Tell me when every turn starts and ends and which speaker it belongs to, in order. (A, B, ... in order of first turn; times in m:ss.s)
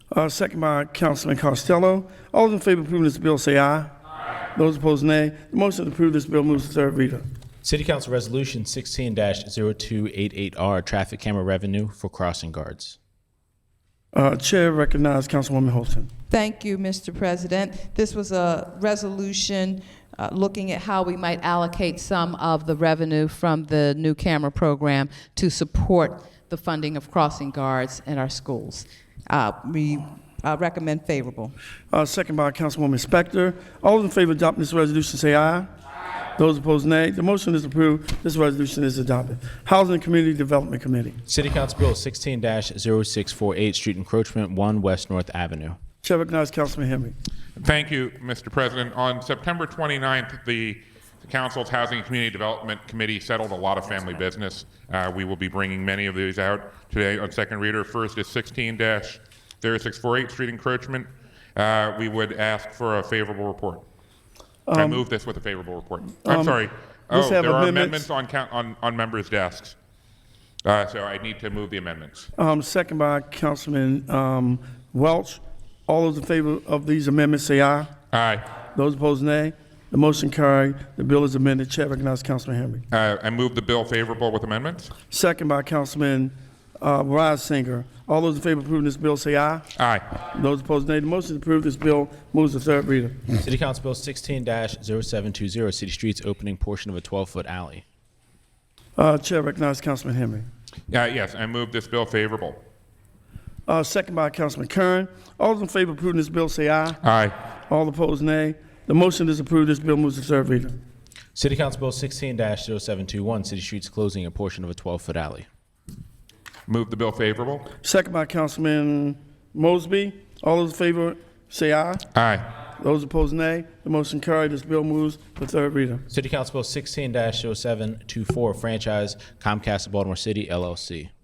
0:00.1-0:03.9 A
0:04.5-0:07.2 A
0:07.6-0:13.0 B
0:14.1-0:16.1 A
0:16.3-0:31.6 C
0:31.9-0:35.7 A
0:36.4-0:41.2 A
0:41.3-0:45.8 B
0:46.0-0:47.2 A
0:47.6-1:03.8 D
1:04.6-1:05.0 A
1:04.7-1:09.8 D
1:06.2-1:06.6 A
1:07.1-1:08.1 A
1:10.6-1:12.3 D
1:12.4-1:17.9 A
1:18.1-1:18.5 D
1:18.7-1:22.8 A
1:22.9-1:24.9 D
1:25.1-1:29.7 A
1:29.8-1:30.0 D
1:30.3-1:33.4 A
1:33.4-1:37.8 B
1:39.0-1:40.5 A
1:40.9-1:42.6 D
1:43.6-1:47.0 A
1:47.0-1:47.3 D
1:47.7-1:50.8 A
1:51.3-1:55.4 B
1:56.7-1:57.7 D
1:57.8-2:02.0 A
2:02.1-2:02.5 D
2:02.8-2:06.0 A
2:06.1-2:11.1 B